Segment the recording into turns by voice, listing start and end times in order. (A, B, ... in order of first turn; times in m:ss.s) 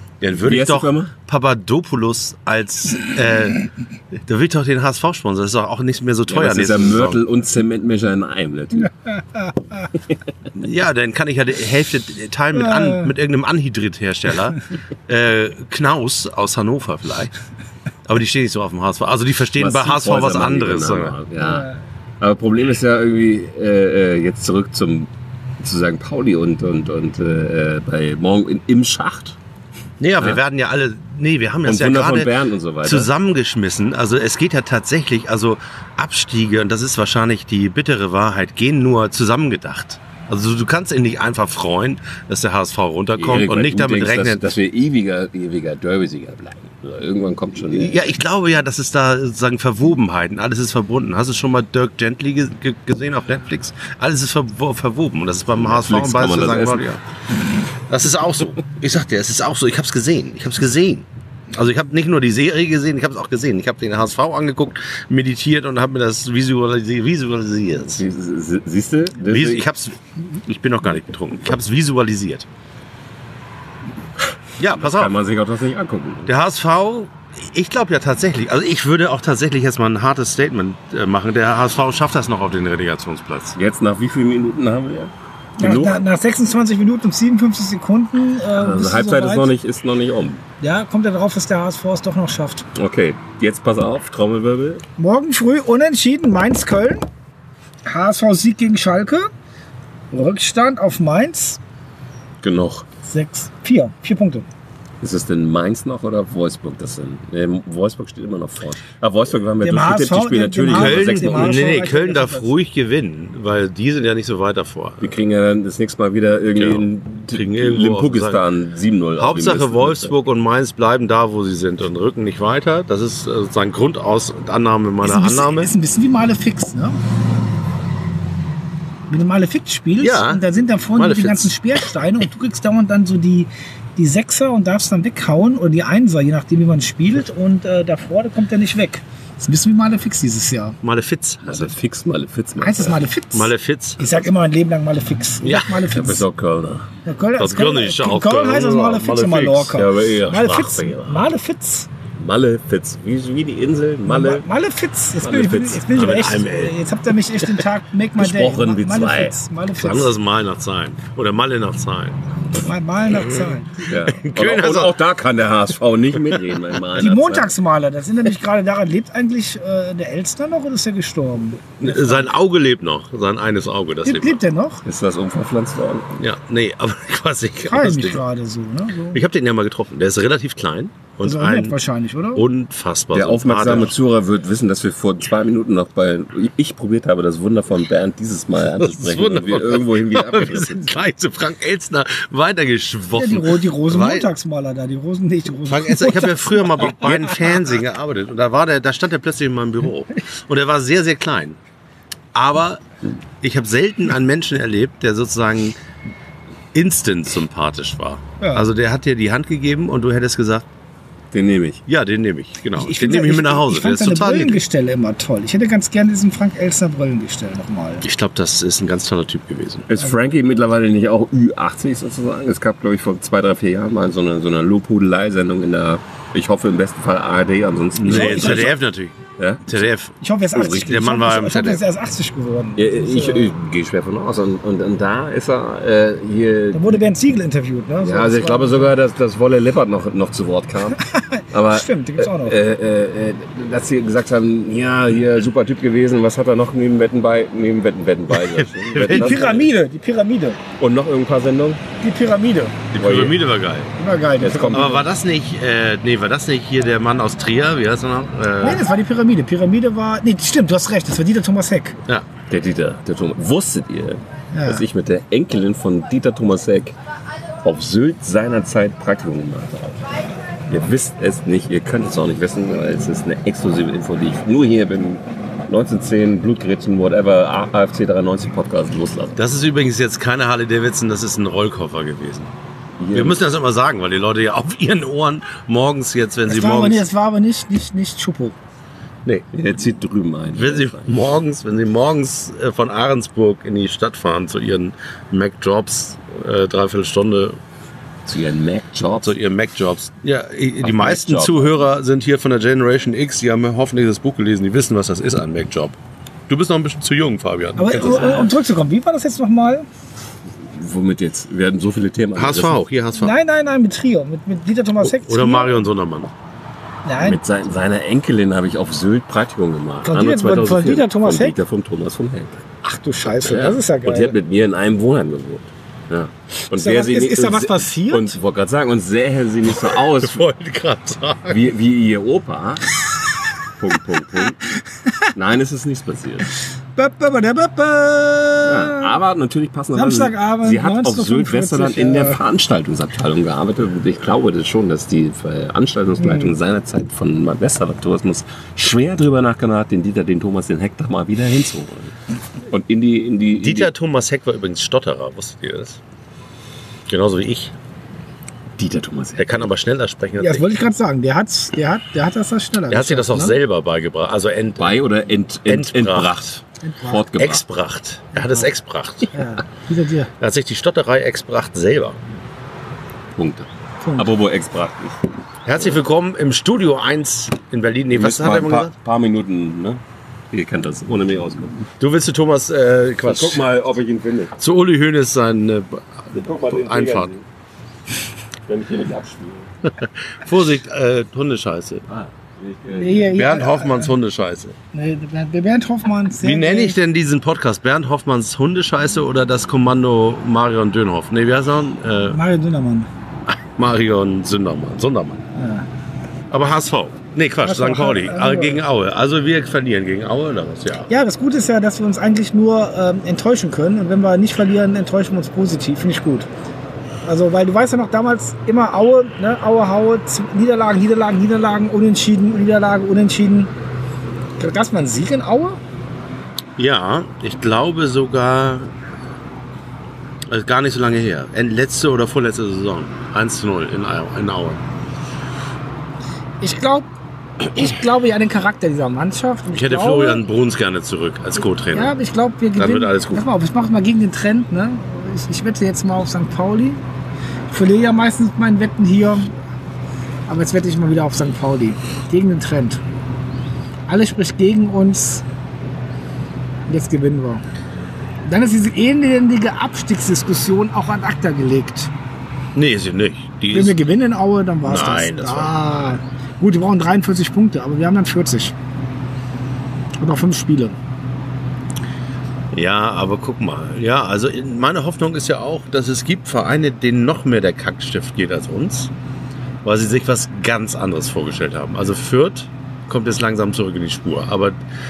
0:00.2-0:03.7 A
0:00.4-0:01.1 B
0:04.2-0:07.2 A
0:06.3-0:08.9 B
0:10.6-0:17.3 A
0:12.6-0:13.1 C
0:18.1-0:21.2 A
0:19.6-0:21.7 B
0:21.4-0:21.8 C
0:22.2-0:29.4 B
0:30.0-0:44.5 A
0:31.6-0:33.1 B
0:43.2-0:48.0 B
0:47.7-0:57.0 A
0:55.5-0:57.0 B
0:57.9-1:08.0 A
1:07.9-1:09.6 B
1:09.2-1:12.4 A
1:14.6-1:15.1 A
1:14.6-1:16.3 B
1:16.2-1:23.6 A
1:23.6-1:26.0 B
1:25.6-1:29.5 C
1:28.5-1:30.4 B
1:30.6-1:32.6 C
1:32.7-1:34.8 B
1:35.0-1:37.0 C
1:37.9-1:39.3 C
1:40.1-1:41.6 C
1:42.4-1:42.9 B
1:43.0-1:44.4 C
1:45.0-1:51.7 B
1:49.6-1:52.5 C
1:50.7-1:55.1 A
1:55.0-2:00.1 B
1:56.6-1:58.4 A
1:59.2-2:05.7 A
2:05.0-2:07.0 C
2:09.1-2:20.8 C
2:10.0-2:11.6 A
2:20.8-2:21.7 A
2:21.4-2:23.0 B
2:22.6-2:26.2 C
2:23.3-2:24.2 A
2:25.4-2:26.0 A
2:25.9-2:26.9 B
2:27.0-2:31.9 C
2:27.4-2:29.8 A
2:29.7-2:31.3 B
2:32.2-2:34.4 B
2:34.0-2:40.1 C
2:35.2-2:35.9 B
2:35.9-2:36.8 A
2:38.2-2:39.4 B
2:39.8-2:42.2 A
2:42.6-2:43.9 C
2:43.9-2:47.5 B
2:44.1-2:45.0 A
2:46.9-2:52.3 C
2:51.8-2:54.4 A
2:54.0-2:54.8 C
2:54.8-2:56.2 B
2:56.2-2:58.2 A
2:57.7-2:59.2 C
2:59.1-3:01.8 A
3:01.2-3:02.4 C
3:02.4-3:03.9 A
3:03.1-3:11.0 B
3:08.8-3:14.3 A
3:13.1-3:17.7 C
3:15.7-3:21.6 A
3:22.3-3:22.8 A
3:23.4-3:25.8 A
3:26.7-3:30.6 A
3:28.4-3:28.6 C
3:31.3-3:31.8 B
3:31.9-3:34.6 A
3:32.8-3:38.0 C
3:38.0-3:39.9 A
3:39.9-3:48.7 B
3:48.0-3:49.2 A
3:48.1-3:48.8 C
3:49.4-3:49.6 B
3:49.7-3:51.8 A
3:50.2-3:53.6 C
3:52.8-3:57.0 B
3:56.7-3:58.9 C
3:58.0-4:01.0 B
4:01.1-4:02.6 C
4:01.5-4:09.6 B
4:08.4-4:09.6 A
4:09.1-4:10.6 C
4:10.8-4:11.8 B
4:12.0-4:12.8 C
4:12.9-4:13.9 A
4:12.9-4:13.4 B
4:14.0-4:15.0 C
4:14.4-4:15.0 B
4:14.7-4:18.8 A
4:18.6-4:22.0 C
4:22.5-4:27.0 B
4:24.5-4:24.8 C
4:27.6-4:30.1 B
4:30.7-4:39.4 B
4:39.4-4:42.5 A
4:43.0-4:43.4 B
4:43.1-4:47.0 A
4:46.5-4:48.6 C
4:49.5-4:51.2 B
4:50.5-4:57.6 A
4:58.2-4:59.4 B
4:59.2-5:06.0 A
5:00.8-5:01.8 B
5:06.5-5:08.6 A
5:07.8-5:09.9 C
5:10.6-5:12.8 B
5:12.4-5:13.4 A
5:13.2-5:15.9 C
5:15.0-5:16.3 A
5:17.0-5:17.4 C
5:17.2-5:22.6 B
5:20.0-5:21.6 C
5:22.8-5:24.4 C
5:23.4-5:30.4 B
5:26.7-5:28.4 C
5:29.9-5:31.6 A
5:31.5-5:32.9 B
5:33.8-5:34.6 B
5:35.4-5:36.5 B
5:37.0-5:39.2 C
5:38.6-5:52.1 B
5:39.9-5:42.4 C
5:46.2-5:46.5 C
5:52.7-5:53.9 B
5:53.6-5:56.0 A
5:57.1-5:57.7 A
5:58.8-5:59.7 B
5:59.4-6:00.7 A
6:00.4-6:03.6 C
6:02.9-6:05.0 A
6:04.8-6:07.6 B
6:05.6-6:06.4 A
6:06.8-6:07.2 C
6:07.4-6:09.3 A
6:08.4-6:08.6 C
6:09.3-6:10.3 C
6:10.4-6:12.2 A
6:13.4-6:15.2 B
6:14.0-6:14.3 C
6:15.6-6:18.9 A
6:18.1-6:21.9 B
6:22.0-6:23.6 A
6:23.2-6:24.6 B
6:24.6-6:27.3 A
6:26.3-6:27.4 B
6:28.6-6:29.7 B
6:29.9-6:32.0 A
6:32.1-6:33.4 B
6:32.9-6:34.1 C
6:33.3-6:34.8 A
6:34.9-6:37.0 C
6:36.4-6:42.4 A
6:42.3-6:43.1 C
6:43.8-6:45.4 A
6:45.6-6:45.8 C
6:46.5-6:51.1 A
6:47.6-6:48.8 C
6:51.1-6:56.5 C
6:57.2-7:03.7 C
7:04.6-7:05.8 C
7:06.8-7:08.9 A
7:10.5-7:14.8 A
7:16.6-7:17.1 C
7:17.7-7:20.4 C
7:19.7-7:22.1 A
7:21.9-7:27.0 C
7:22.8-7:23.4 A
7:27.7-7:29.5 C
7:30.5-7:33.0 C
7:34.1-7:35.4 C
7:36.9-7:37.6 C
7:38.4-7:42.1 C
7:42.7-7:44.0 A
7:43.7-7:48.7 C
7:44.8-7:45.8 A
7:50.2-7:51.0 C
7:52.7-7:59.1 A
7:59.8-8:04.8 A